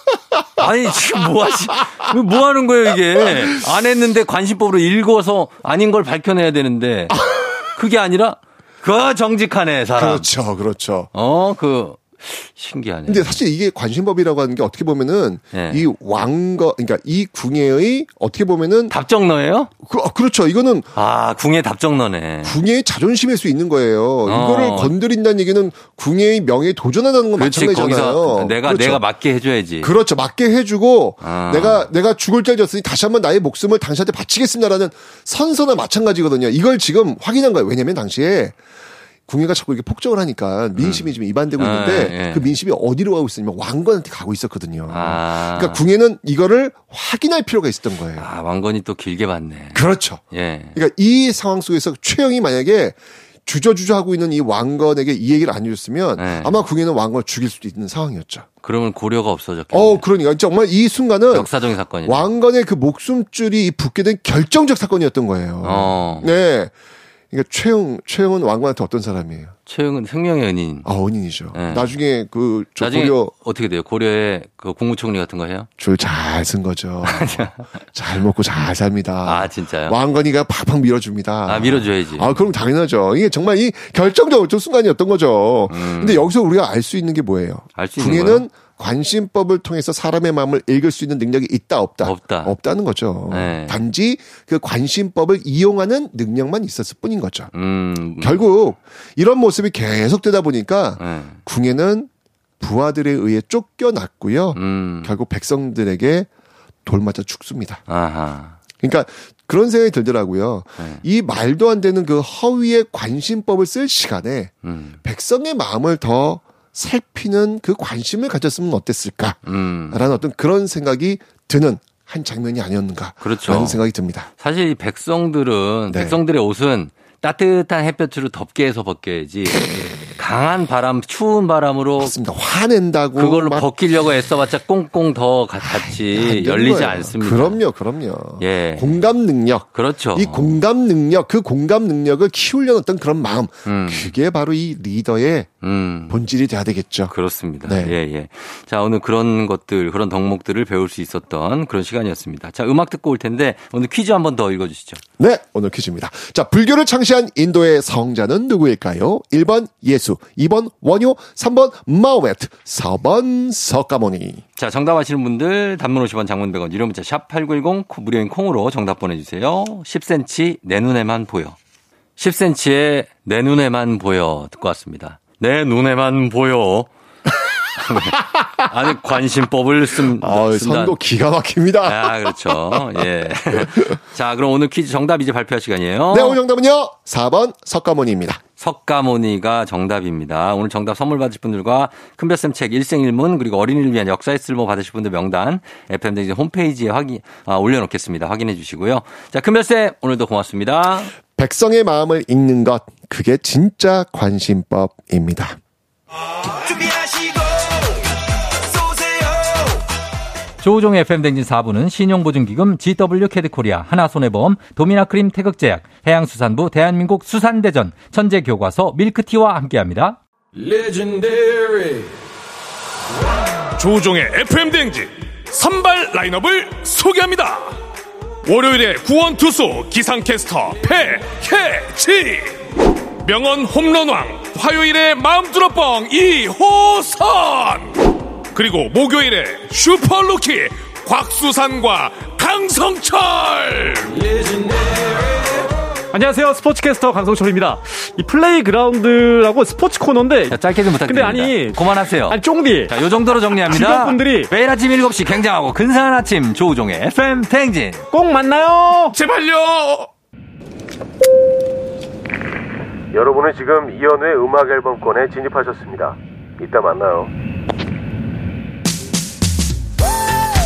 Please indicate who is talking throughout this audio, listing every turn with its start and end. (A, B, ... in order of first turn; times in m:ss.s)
0:00.6-0:07.2 A
0:03.2-0:03.6 B
0:07.2-0:07.5 B
0:07.8-0:10.3 A
0:10.0-0:11.1 B
0:11.1-0:13.4 A
0:13.1-0:18.9 B
0:15.5-0:15.8 A
0:18.9-0:19.7 A
0:19.8-0:20.9 B
0:21.0-0:22.6 A
0:22.4-0:29.0 B
0:24.2-0:24.9 A
0:27.4-0:30.0 A
0:29.8-0:38.6 B
0:31.2-0:31.9 A
0:39.3-0:48.3 B
0:40.8-0:42.6 A
0:44.9-0:45.8 A
0:48.2-0:50.8 A
0:49.7-0:50.2 B
0:50.8-0:58.5 B
0:56.2-0:56.7 A
0:58.6-1:00.0 A
0:59.7-1:01.5 B
1:01.3-1:02.3 A
1:02.0-1:06.7 B
1:05.6-1:06.3 A
1:07.3-1:09.6 B
1:09.7-1:10.9 A
1:10.8-1:13.3 B
1:11.5-1:11.9 A
1:12.8-1:15.7 A
1:15.8-1:37.5 B
1:17.0-1:17.6 A
1:19.2-1:20.0 A
1:21.5-1:22.4 A
1:25.7-1:26.3 A
1:27.8-1:28.5 A
1:32.0-1:32.6 A
1:33.3-1:33.8 A
1:37.5-1:38.4 A
1:38.2-1:42.1 B
1:41.0-1:41.4 A
1:42.6-1:46.3 B
1:44.5-1:45.1 A
1:46.8-1:47.8 B
1:47.9-1:48.6 A
1:48.8-1:59.4 B
1:50.8-1:51.0 A
1:54.6-1:55.0 A
1:59.4-2:00.0 A
1:59.9-2:04.3 B
2:03.2-2:03.8 A
2:04.4-2:12.1 A
2:05.9-2:06.2 B
2:12.0-2:13.7 B
2:13.2-2:17.6 A
2:15.6-2:25.5 B
2:18.4-2:19.1 A
2:19.7-2:20.6 A
2:23.7-2:24.2 A
2:25.6-2:26.2 A
2:26.1-2:27.1 B
2:27.1-2:35.0 A
2:27.6-2:28.0 B
2:35.2-2:44.4 B
2:44.6-2:51.6 A
2:52.2-2:56.9 A
2:57.8-3:01.0 A
2:58.0-2:58.6 B
3:00.1-3:02.9 B
3:01.8-3:06.4 A
3:03.5-3:04.0 B
3:06.1-3:08.4 B
3:08.6-3:21.1 A
3:21.4-3:25.6 B
3:30.6-3:40.2 A
3:40.6-3:42.0 C
3:43.8-3:47.8 C
3:48.4-3:52.5 C
3:53.2-3:57.9 C
3:58.5-4:04.1 C
4:06.1-4:14.5 D
4:10.5-4:18.0 A
4:18.1-4:19.1 D
4:19.1-4:20.1 C
4:23.1-4:27.3 E